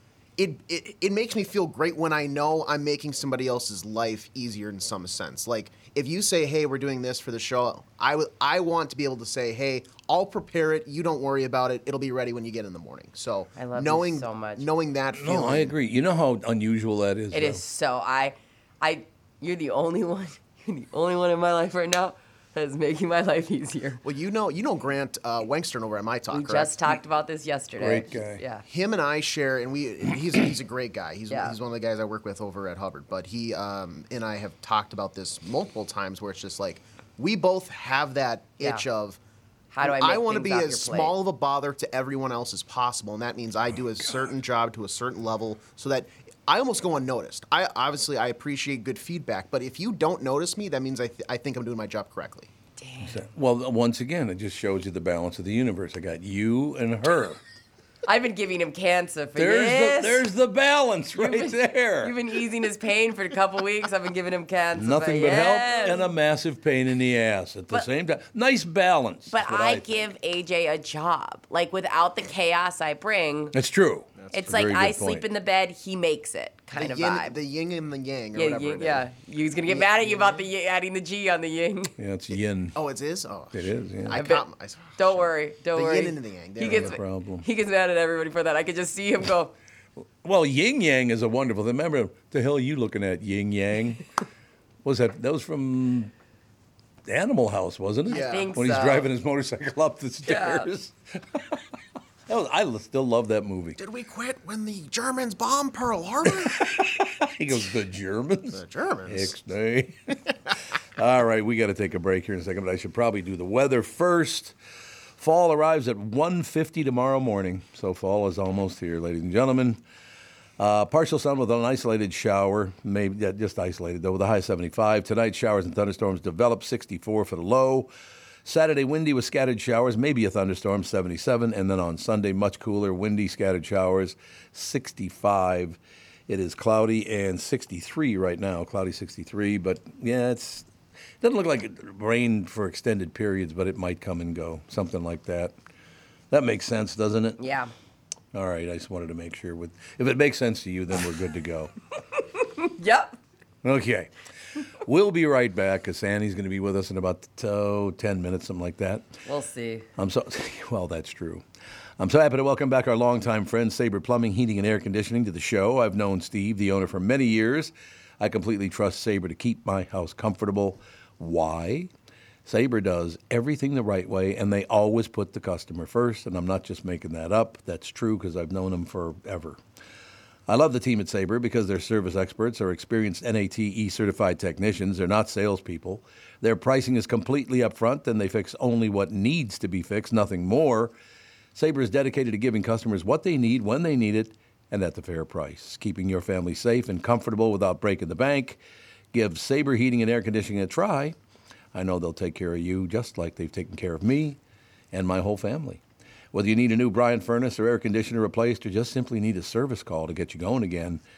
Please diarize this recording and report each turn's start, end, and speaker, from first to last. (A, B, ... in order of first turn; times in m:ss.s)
0:00.4-0:15.7 A
0:13.6-0:14.7 B
0:15.1-0:17.6 C
0:17.3-0:24.0 B
0:24.0-0:26.8 A
0:26.3-0:28.6 B
0:27.8-0:28.4 C
0:28.7-0:39.2 A
0:31.3-0:31.6 B
0:38.6-0:38.8 B
0:39.7-0:41.2 B
0:39.8-0:52.5 A
0:52.8-0:53.2 B
0:53.0-0:57.4 C
0:58.1-1:00.2 B
0:59.4-1:02.2 C
1:01.2-1:06.0 B
1:04.8-1:10.1 C
1:09.3-1:13.5 B
1:13.5-1:15.3 C
1:14.3-1:17.4 B
1:16.7-1:19.1 A
1:18.3-1:21.9 B
1:19.7-1:20.4 A
1:22.0-1:22.8 C
1:22.8-1:27.0 A
1:23.5-1:24.2 C
1:24.1-1:24.4 B
1:25.0-1:29.5 B
1:26.7-1:27.4 C
1:30.2-1:34.0 C
1:34.8-1:36.1 C
1:37.1-1:41.6 C
1:38.1-1:38.5 A
1:38.1-1:39.1 B
1:40.3-1:40.7 B
1:42.3-1:43.8 C
1:43.8-1:46.7 A
1:46.6-1:50.1 C
1:48.5-1:49.3 A
1:51.0-1:54.5 C
1:55.2-1:59.8 C
2:00.6-2:07.9 C
2:08.4-2:20.7 C
2:21.2-2:25.5 C
2:26.3-2:27.4 C
2:27.4-2:27.7 B
2:28.3-2:31.7 C
2:32.6-2:33.2 B
2:33.6-2:34.1 C
2:34.8-2:39.1 C
2:39.2-2:39.9 B
2:40.0-2:41.4 C
2:42.0-2:51.9 C
2:52.5-2:59.6 C
3:00.5-3:10.9 C
3:11.6-3:18.6 C
3:19.1-3:21.2 C
3:21.7-3:24.4 C
3:24.9-3:25.8 C
3:26.3-3:31.0 C